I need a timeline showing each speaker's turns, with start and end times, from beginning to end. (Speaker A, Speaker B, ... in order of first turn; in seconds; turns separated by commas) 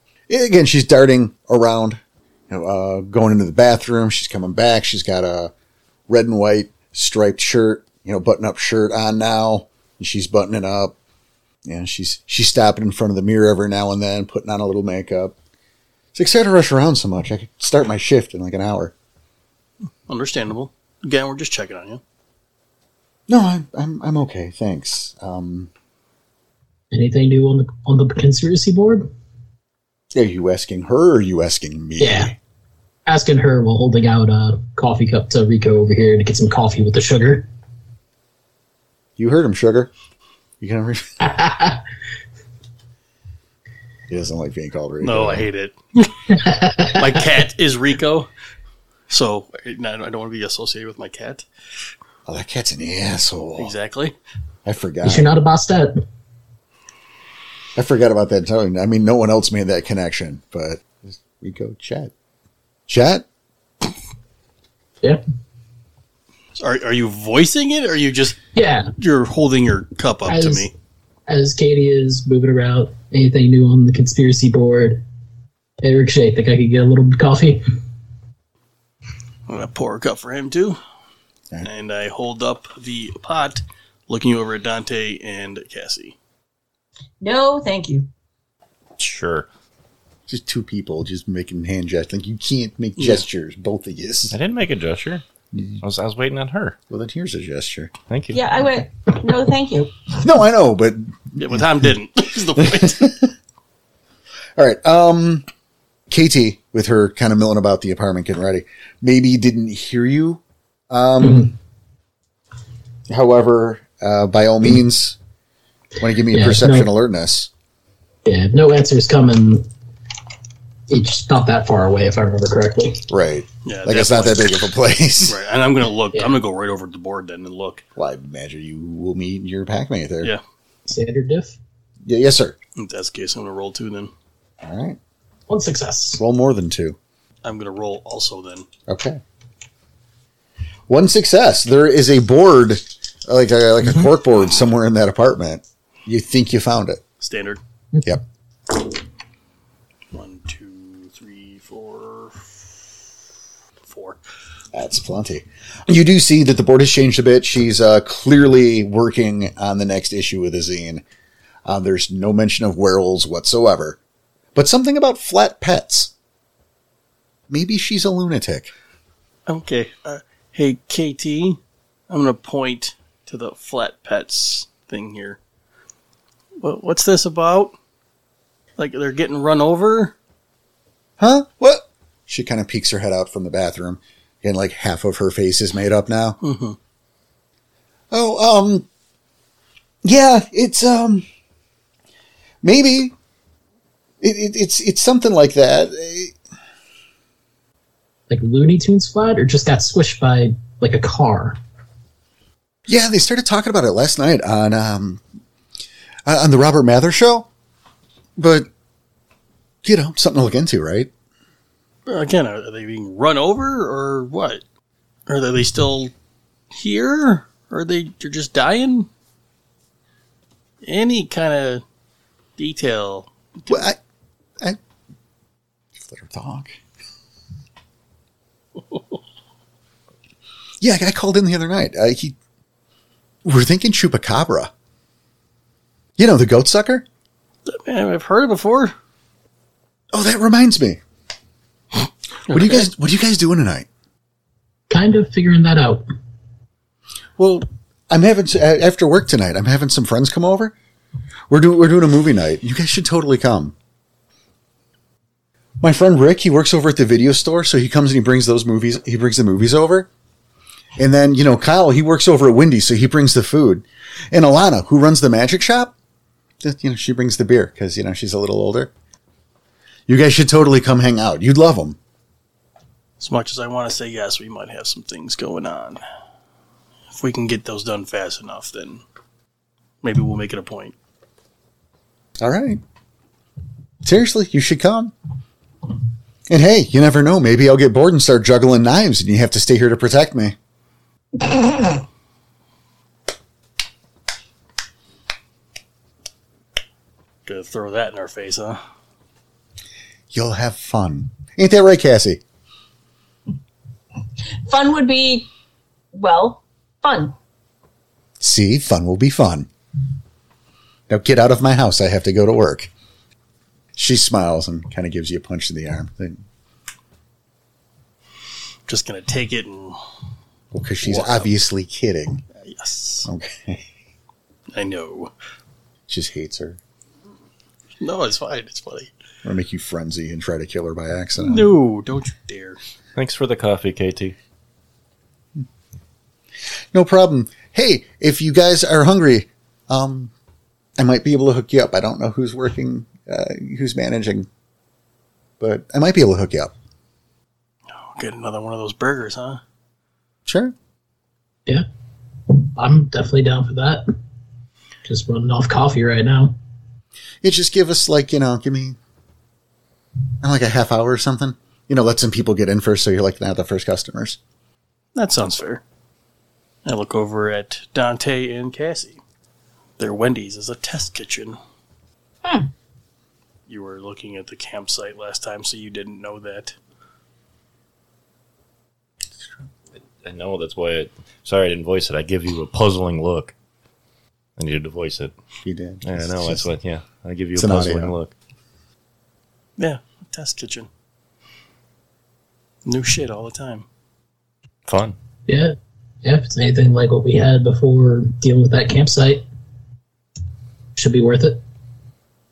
Speaker A: 0.3-5.5, Speaker A: 6.1-10.9, Speaker A: 11.7-15.3, Speaker A: 16.1-18.9, Speaker B: 20.1-22.0, Speaker A: 23.3-25.7, Speaker C: 26.9-29.1, Speaker A: 30.1-32.4, Speaker C: 32.0-32.3, Speaker C: 33.1-37.5, Speaker A: 39.2-39.9, Speaker A: 40.6-41.2, Speaker C: 41.2-41.8, Speaker A: 44.1-45.5, Speaker B: 45.0-48.3, Speaker C: 46.3-47.0, Speaker B: 49.1-51.5, Speaker A: 52.3-53.8, Speaker B: 53.6-54.2, Speaker A: 54.7-55.3, Speaker C: 55.0-56.0, Speaker A: 57.8-62.1, Speaker A: 62.9-63.3, Speaker B: 66.5-68.4, Speaker C: 68.5-68.9, Speaker B: 69.0-70.7, Speaker C: 70.3-70.7, Speaker C: 71.3-75.0, Speaker C: 75.8-77.6, Speaker B: 79.5-80.8, Speaker B: 81.6-86.2, Speaker D: 87.2-88.1, Speaker E: 89.0-89.5, Speaker A: 90.3-94.4, Speaker B: 93.0-93.2, Speaker E: 94.3-95.2, Speaker A: 95.5-95.8, Speaker E: 95.8-96.8, Speaker A: 96.9-97.9, Speaker E: 98.1-98.4, Speaker D: 98.3-100.1, Speaker A: 100.1-101.6, Speaker B: 101.4-103.2, Speaker A: 102.6-103.3, Speaker A: 104.6-105.5, Speaker A: 106.1-111.5, Speaker C: 111.2-111.5, Speaker A: 113.1-115.2, Speaker A: 116.0-117.5, Speaker C: 116.3-116.9, Speaker C: 118.2-119.7, Speaker C: 120.9-123.1, Speaker A: 123.1-125.4, Speaker B: 123.7-124.6, Speaker B: 125.3-127.8, Speaker A: 128.0-130.3, Speaker C: 130.9-131.6, Speaker A: 132.1-132.6, Speaker B: 132.8-134.1, Speaker A: 134.6-135.0, Speaker C: 135.5-136.2, Speaker A: 136.2-137.0, Speaker B: 137.4-138.7, Speaker A: 138.9-139.2, Speaker A: 140.9-147.0, Speaker B: 147.2-147.6, Speaker B: 150.1-152.6, Speaker B: 153.8-154.2, Speaker A: 154.7-161.0, Speaker A: 161.7-164.0, Speaker A: 164.6-166.1, Speaker A: 167.5-168.7, Speaker B: 169.5-175.4, Speaker B: 176.6-177.8, Speaker B: 178.8-180.2, Speaker A: 181.2-186.4, Speaker B: 186.4-186.8, Speaker A: 188.1-188.9, Speaker A: 190.0-191.2, Speaker A: 192.6-193.1, Speaker A: 194.2-196.3, Speaker C: 198.3-201.6, Speaker A: 202.9-205.2, Speaker A: 206.3-207.5, Speaker A: 208.4-208.7, Speaker A: 209.8-211.1, Speaker B: 212.1-214.6, Speaker B: 215.3-216.1, Speaker B: 216.7-219.1, Speaker B: 220.8-221.8, Speaker B: 222.6-223.9, Speaker A: 223.7-224.0, Speaker A: 225.9-226.8, Speaker A: 230.8-232.4, Speaker A: 233.4-234.7, Speaker A: 236.2-237.0, Speaker B: 237.7-238.9, Speaker A: 240.1-241.0, Speaker B: 242.5-242.9, Speaker A: 242.5-243.9, Speaker C: 244.9-246.0, Speaker A: 247.4-250.7, Speaker A: 251.5-253.7, Speaker A: 255.8-260.1, Speaker A: 261.0-265.9, Speaker A: 266.6-268.9, Speaker A: 270.1-272.0, Speaker B: 273.2-276.0, Speaker B: 277.1-279.0, Speaker B: 280.0-280.9, Speaker A: 282.4-282.8, Speaker A: 284.0-285.1, Speaker A: 286.5-290.6, Speaker B: 297.5-298.8, Speaker A: 300.3-302.4, Speaker D: 304.7-305.5, Speaker D: 306.1-307.4, Speaker A: 308.4-309.7, Speaker A: 311.1-312.9, Speaker A: 314.0-316.4, Speaker B: 318.9-320.0, Speaker A: 320.7-322.4, Speaker B: 321.0-321.5, Speaker B: 322.7-323.3, Speaker A: 323.2-323.9, Speaker B: 324.7-325.3, Speaker A: 326.1-326.8, Speaker B: 328.0-329.1, Speaker A: 329.4-331.7, Speaker B: 331.4-332.8, Speaker E: 333.2-334.4, Speaker A: 336.9-340.3, Speaker A: 341.0-344.5, Speaker A: 345.6-346.7, Speaker B: 347.9-349.6, Speaker A: 350.5-350.8, Speaker C: 352.8-354.1, Speaker C: 355.1-356.6, Speaker A: 357.4-359.0, Speaker A: 360.4-364.4, Speaker B: 365.2-365.8, Speaker B: 366.8-369.2, Speaker B: 370.0-371.6, Speaker D: 372.4-372.7, Speaker B: 373.7-376.8, Speaker E: 380.2-383.5, Speaker E: 384.6-385.3, Speaker A: 385.6-386.7, Speaker E: 386.0-388.3, Speaker A: 387.6-388.2, Speaker B: 389.8-390.9, Speaker B: 392.9-393.9, Speaker E: 394.9-395.2, Speaker C: 395.5-399.4, Speaker C: 401.0-401.6